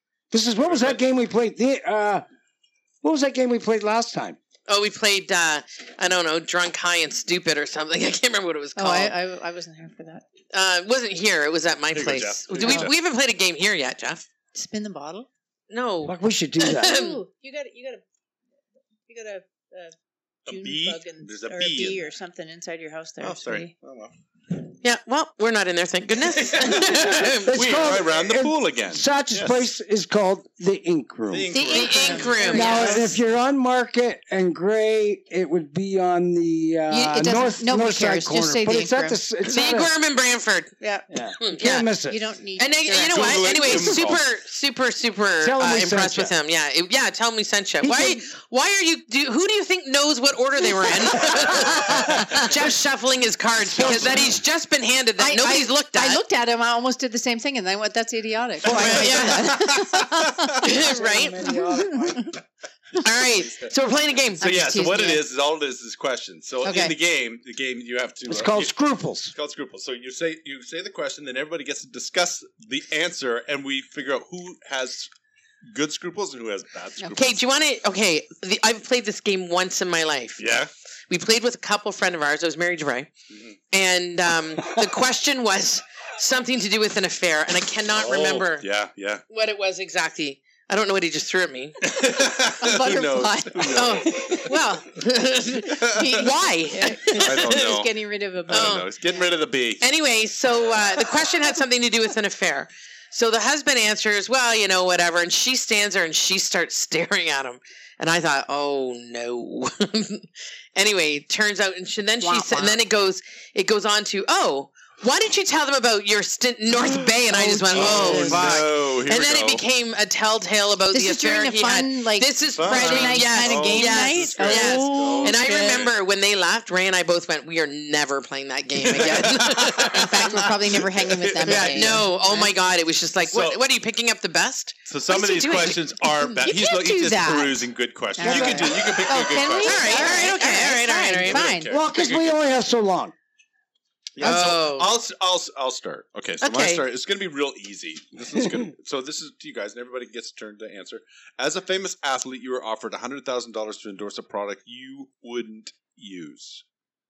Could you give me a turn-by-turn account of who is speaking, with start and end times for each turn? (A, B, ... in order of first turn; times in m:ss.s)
0:00.3-0:02.2 A
0:00.6-0:01.0 B
0:03.0-0:04.4 A
0:04.7-0:09.2 C
0:08.8-0:10.2 D
0:10.5-0:14.3 C
0:11.9-0:13.0 B
0:12.6-0:12.9 D
0:14.5-0:15.3 D
0:15.7-0:17.2 C
0:16.0-0:17.0 A
0:16.7-0:18.0 D
0:19.1-0:20.0 D
0:20.5-0:22.0 B
0:20.5-0:23.7 D
0:23.2-0:24.1 B
0:24.8-0:27.9 C
0:26.4-0:29.6 B
0:26.9-0:31.5 A
0:31.3-0:33.0 B
0:31.5-0:33.2 D
0:31.7-0:33.0 C
0:32.5-0:39.9 A
0:36.9-0:39.2 D
0:39.4-0:40.7 C
0:40.8-0:44.0 D
0:41.1-0:42.2 A
0:41.4-0:41.9 C
0:42.6-0:56.2 C
0:43.1-0:44.2 B
0:45.4-0:46.3 A
0:47.8-0:48.2 A
0:51.4-0:52.0 A
0:51.8-0:52.6 B
0:53.6-0:54.4 A
0:53.8-0:54.3 B
0:55.2-1:00.7 D
0:58.6-0:59.5 C
0:58.6-1:00.3 B
0:58.7-0:59.1 A
1:00.6-1:01.4 C
1:00.6-1:02.4 A
1:01.4-1:02.3 D
1:03.0-1:04.4 C
1:03.4-1:03.7 B
1:04.4-1:05.2 D
1:04.4-1:08.7 B
1:06.6-1:06.9 D
1:08.3-1:09.3 A
1:09.3-1:15.1 B
1:15.6-1:17.4 B
1:17.2-1:23.1 C
1:20.4-1:20.7 B
1:23.7-1:28.7 C
1:27.9-1:29.2 B
1:29.3-1:31.9 C
1:31.8-1:34.5 B
1:32.6-1:34.2 D
1:33.7-1:37.8 C
1:35.6-1:36.3 B
1:35.8-1:38.9 D
1:37.1-1:37.9 B
1:38.5-1:39.8 B
1:38.5-1:38.9 C
1:39.8-2:10.4 C
1:52.2-1:52.8 D
1:56.7-1:59.6 B
1:57.3-1:58.5 D
2:00.9-2:05.9 D
2:02.6-2:05.9 B
2:08.8-2:12.0 B
2:09.8-2:12.6 D
2:11.4-2:16.4 C
2:13.2-2:13.6 B
2:14.9-2:20.4 B
2:16.4-2:21.8 D
2:18.2-2:18.8 A
2:19.6-2:21.5 C
2:21.2-2:22.4 B
2:21.7-2:23.1 A
2:24.2-2:36.6 B
2:24.2-2:24.9 C
2:26.4-2:26.8 C